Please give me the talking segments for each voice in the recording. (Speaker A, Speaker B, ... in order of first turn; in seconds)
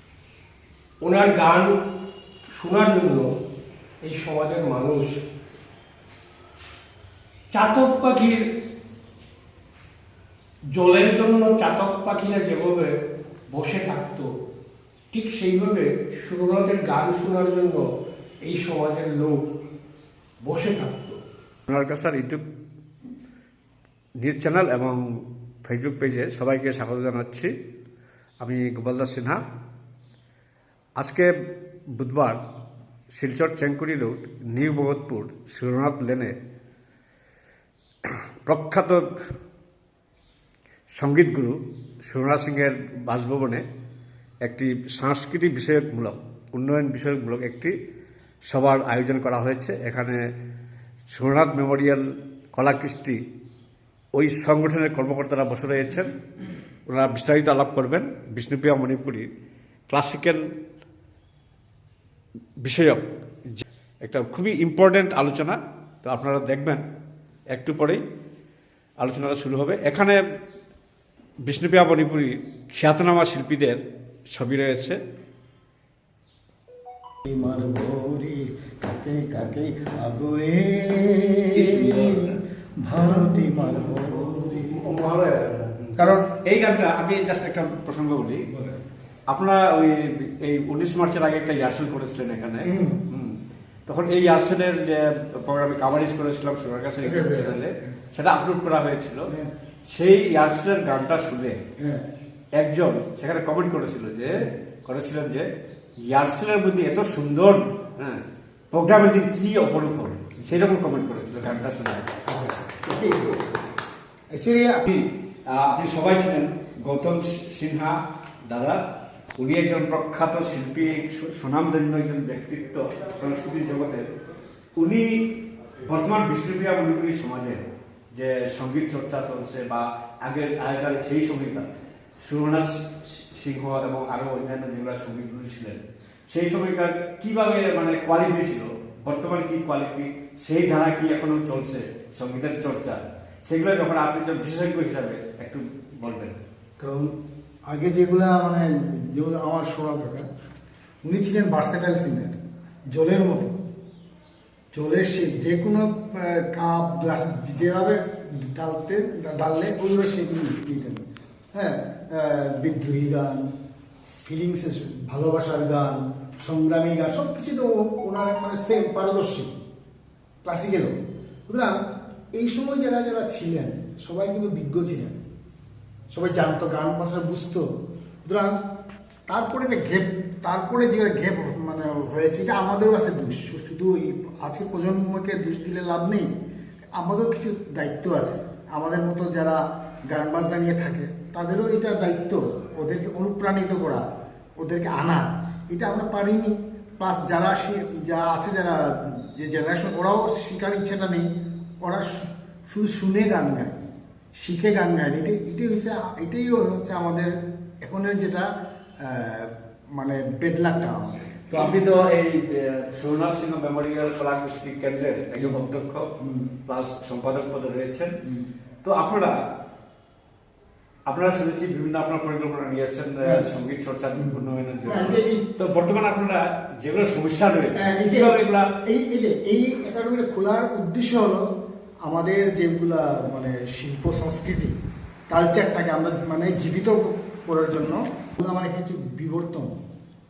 Speaker A: 1.0-1.8, 2.5-3.3, 4.0-5.1, 7.5-8.5, 10.7-12.9, 13.5-14.3, 15.1-17.9, 18.5-19.4, 20.4-21.2, 84.8-85.8
Speaker B: 21.7-22.4, 24.2-25.0, 25.7-27.5, 28.4-29.4, 31.0-31.3, 32.0-32.4, 33.1-36.4, 38.1-39.1, 41.0-43.6, 44.4-47.8, 48.5-50.2, 51.1-52.0, 52.5-53.2, 54.2-56.2, 56.9-59.3, 59.9-60.4, 62.6-66.8, 67.5-68.0, 69.0-70.2, 71.4-73.8, 74.3-75.0, 81.5-82.4, 85.8-88.5, 89.3-99.3, 99.9-101.6, 102.6-105.5, 106.0-108.2, 108.7-112.1, 114.9-118.8, 119.4-124.1, 124.8-125.3, 125.8-146.4, 211.5-216.1, 216.7-218.2, 218.8-219.3, 221.1-228.7
Speaker C: 77.3-84.9, 86.0-86.3, 88.5-88.8, 92.6-93.0, 97.0-97.6, 101.8-102.0, 112.3-113.4, 114.3-114.8, 146.8-147.1, 147.7-150.3, 151.0-152.4, 152.9-153.6, 154.7-163.5, 164.1-169.5, 170.4-171.0, 171.5-171.7, 172.4-175.2, 176.1-177.7, 178.2-178.6, 179.3-186.3, 187.0-194.0, 194.6-201.3, 201.8-203.8, 204.4-207.3, 207.8-208.5, 209.0-211.8, 216.2-216.5, 224.2-225.5, 227.8-231.4, 232.1-234.7, 235.3-239.7